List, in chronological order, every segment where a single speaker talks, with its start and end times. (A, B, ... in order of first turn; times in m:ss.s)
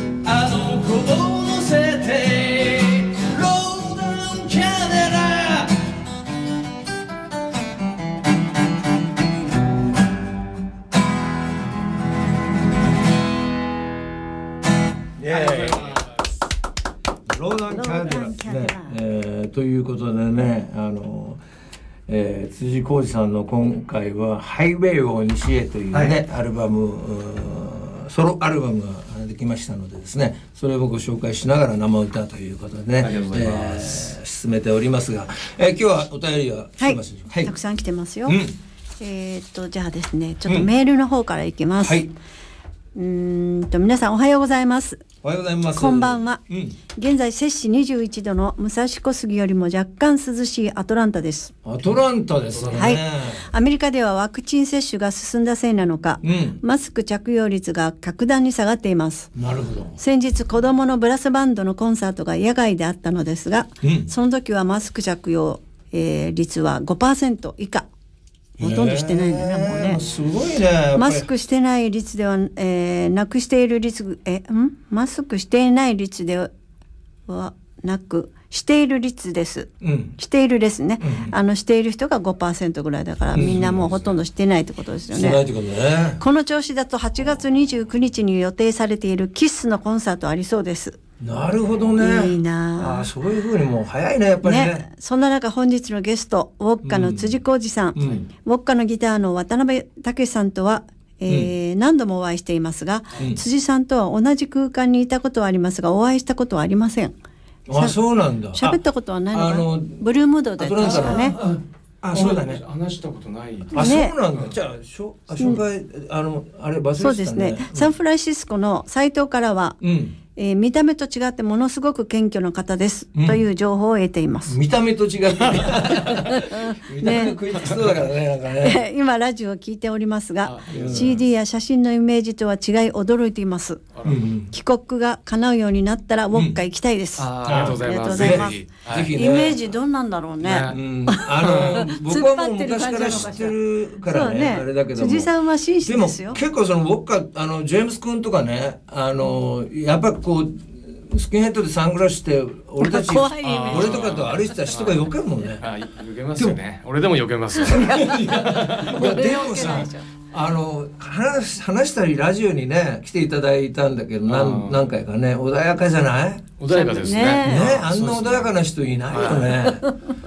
0:00.2-0:05.8 A
0:15.2-0:16.0 B
0:15.3-0:16.3 A
0:17.3-0:21.4 B
0:17.7-0:19.0 C
0:22.1-0:37.5 B
0:33.0-0:34.1 A
0:36.8-0:38.4 C
0:38.3-0:38.6 B
0:39.0-0:42.0 C
0:41.8-0:42.1 B
0:43.0-0:45.0 C
0:45.2-0:46.8 B
0:45.8-0:46.4 C
0:47.0-0:51.5 C
0:51.6-0:53.5 B
0:52.5-0:53.0 A
0:52.7-0:59.3 C
0:56.2-0:56.6 B
0:59.4-1:00.0 B
1:00.0-1:07.9 C
1:03.8-1:04.1 B
1:08.6-1:10.0 C
1:08.6-1:11.3 B
1:11.0-1:16.5 C
1:17.3-1:25.4 C
1:19.8-1:20.1 B
1:21.0-1:21.3 B
1:23.3-1:24.1 B
1:25.1-1:26.2 B
1:26.2-1:31.0 C
1:31.2-1:34.8 B
1:32.0-1:33.1 C
1:34.4-1:47.1 C
1:36.8-1:37.4 B
1:38.0-1:38.3 B
1:47.7-1:48.8 B
1:47.7-1:48.0 C
1:48.5-1:51.4 C
1:49.3-1:50.0 B
1:50.6-1:52.6 B
1:50.8-1:51.6 A
1:52.1-1:54.6 A
1:53.7-1:57.9 B
1:53.8-1:54.2 C
1:57.0-1:59.8 C
1:59.8-2:00.1 B
2:00.4-2:04.6 C
2:03.1-2:03.4 B
2:04.5-2:08.8 B
2:05.9-2:07.4 C
2:08.6-2:13.8 C
2:10.4-2:11.2 A
2:10.7-2:11.2 B
2:13.9-2:14.2 A
2:14.0-2:14.5 B
2:14.5-2:26.4 C
2:16.3-2:16.6 B
2:17.2-2:19.2 A
2:17.4-2:19.6 B
2:20.4-2:20.8 A
2:20.6-2:25.3 B
2:21.4-2:21.7 A
2:25.8-2:35.7 B
2:32.8-2:34.1 C
2:33.4-2:35.1 A
2:35.6-2:39.9 A
2:37.6-2:40.1 C
2:37.8-2:46.5 B
2:44.3-2:44.8 A
2:46.6-2:48.5 A
2:46.7-2:47.7 C
2:47.4-2:49.9 B
2:49.1-2:49.6 A
2:49.7-2:50.1 C